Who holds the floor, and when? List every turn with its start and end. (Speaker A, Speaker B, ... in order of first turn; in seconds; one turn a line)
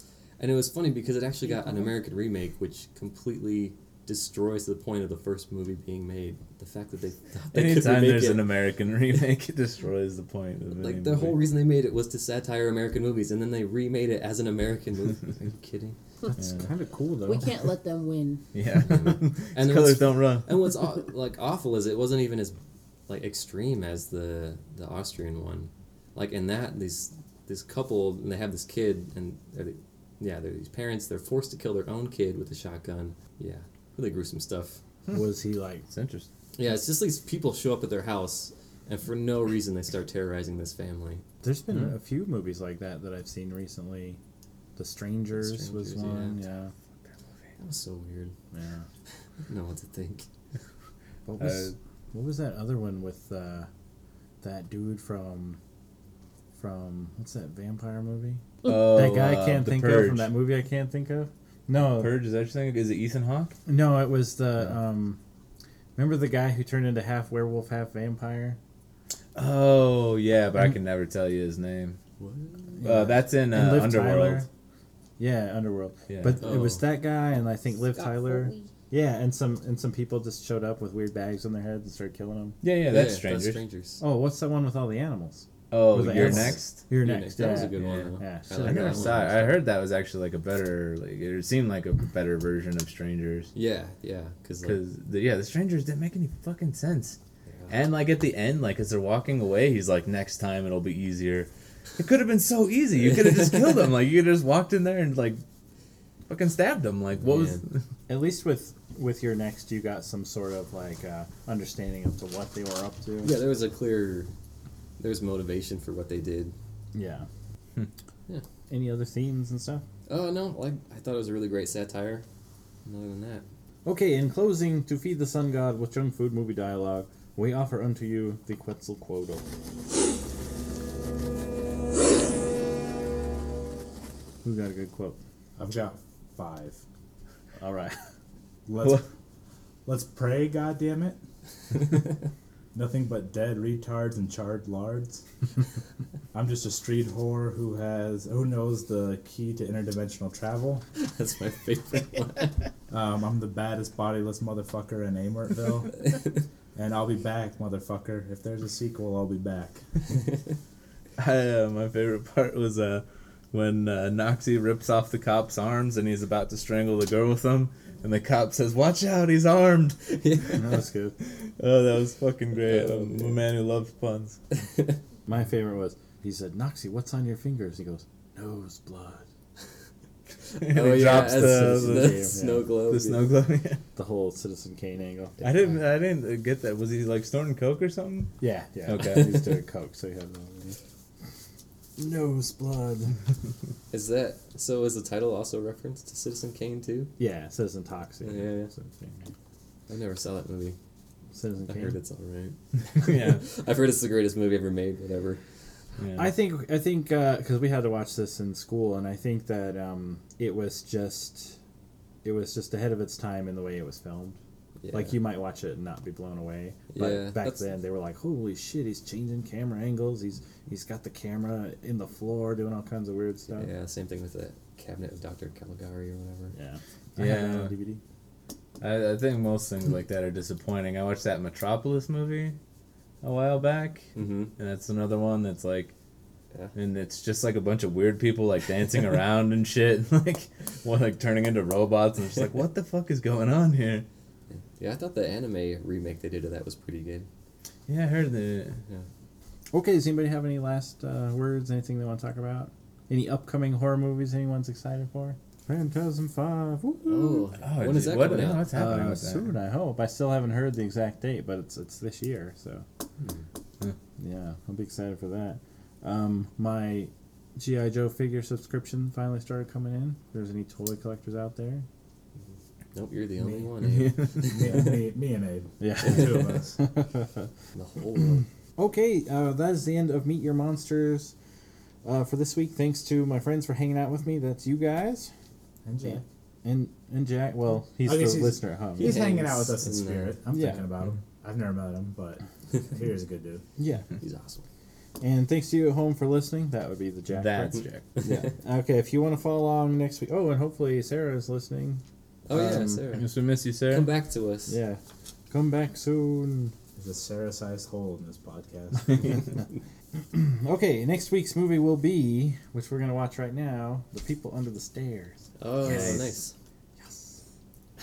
Speaker A: 0.4-8.6
Speaker B: 7.5-11.4
Speaker A: 10.8-16.0
Speaker C: 16.4-17.5
Speaker D: 17.2-18.4
Speaker B: 18.5-20.5
Speaker A: 18.8-22.6
Speaker A: 23.1-34.8
Speaker C: 35.1-35.9
Speaker B: 35.9-36.3
Speaker A: 36.6-41.2
Speaker C: 41.4-44.2
Speaker C: 44.8-46.7
Speaker A: 45.4-46.4
Speaker A: 47.6-48.3
Speaker C: 48.5-48.9
Speaker A: 49.4-50.3
Speaker C: 51.3-53.7
Speaker B: 51.4-51.8
Speaker C: 54.4-55.6
Speaker C: 56.6-62.1
Speaker B: 58.6-60.3
Speaker B: 62.0-63.5
Speaker C: 63.7-65.2
Speaker C: 66.0-68.6
Speaker B: 69.3-72.0
Speaker A: 72.2-72.8
Speaker C: 72.8-74.5
Speaker B: 72.8-74.5
Speaker C: 75.2-82.6
Speaker B: 76.1-76.4
Speaker A: 76.4-76.8
Speaker D: 77.8-78.7
Speaker B: 82.6-83.6
Speaker A: 82.9-84.0
Speaker C: 84.0-89.1
Speaker B: 85.7-86.8
Speaker A: 86.0-89.7
Speaker B: 87.6-88.0
Speaker B: 88.5-93.5
Speaker A: 93.5-94.8
Speaker B: 94.6-97.2
Speaker A: 97.5-97.7
Speaker B: 97.7-105.4
Speaker B: 106.3-107.8
Speaker A: 107.2-107.6
Speaker C: 108.1-113.4
Speaker A: 113.2-114.3
Speaker A: 115.0-116.5
Speaker C: 116.9-117.3
Speaker C: 118.7-119.8
Speaker A: 120.1-122.2
Speaker A: 122.8-123.5
Speaker C: 123.8-129.4
Speaker C: 134.4-135.2
Speaker E: 135.6-136.8
Speaker C: 137.6-138.0
Speaker E: 138.7-139.1
Speaker E: 139.9-141.2
Speaker E: 142.7-145.2
Speaker E: 146.3-150.9
Speaker A: 151.0-152.7
Speaker E: 152.9-156.1
Speaker A: 156.1-156.4
Speaker E: 156.8-159.8
Speaker B: 161.2-170.6
Speaker A: 170.1-170.6
Speaker C: 170.6-171.2
Speaker B: 171.3-174.4
Speaker A: 172.6-173.3
Speaker A: 174.5-175.0
Speaker C: 175.3-179.2
Speaker B: 180.6-183.8
Speaker A: 180.6-183.3
Speaker C: 181.1-182.7
Speaker C: 184.0-185.5
Speaker B: 185.4-188.3
Speaker C: 188.4-190.8
Speaker B: 188.9-189.5
Speaker C: 192.0-193.2
Speaker A: 193.9-197.1
Speaker C: 197.2-199.3
Speaker A: 198.2-198.7
Speaker A: 199.9-200.8
Speaker C: 201.3-202.0
Speaker A: 201.7-205.4
Speaker B: 203.0-203.4
Speaker B: 206.0-206.3
Speaker C: 206.2-211.6
Speaker C: 212.2-214.4
Speaker A: 214.8-215.2
Speaker C: 214.9-223.7
Speaker A: 216.9-217.7
Speaker A: 223.5-226.6
Speaker C: 226.5-228.0
Speaker B: 227.2-227.7
Speaker B: 228.8-232.6
Speaker B: 233.2-235.9
Speaker A: 234.2-234.5
Speaker B: 236.8-244.1
Speaker A: 244.5-247.3
Speaker B: 247.9-248.8
Speaker C: 249.7-257.5
Speaker A: 257.0-258.7
Speaker B: 257.6-259.5
Speaker C: 258.7-262.9
Speaker C: 264.2-271.9
Speaker A: 272.9-274.9
Speaker B: 273.8-274.3
Speaker E: 274.5-276.8
Speaker C: 275.8-277.5
Speaker A: 277.7-278.4
Speaker C: 278.8-281.3
Speaker C: 282.0-285.3
Speaker E: 285.9-286.2
Speaker C: 286.1-289.2
Speaker E: 288.0-293.6
Speaker A: 289.0-290.4
Speaker C: 290.5-290.9
Speaker C: 293.8-294.1
Speaker A: 294.2-294.6
Speaker C: 295.2-303.0
Speaker B: 297.3-298.1
Speaker A: 298.2-298.5
Speaker A: 302.5-303.3
Speaker B: 303.1-304.1
Speaker A: 303.8-304.8
Speaker C: 304.7-306.7
Speaker E: 307.0-309.5
Speaker C: 310.3-316.2
Speaker A: 315.6-316.5
Speaker B: 315.8-316.3
Speaker C: 317.0-317.4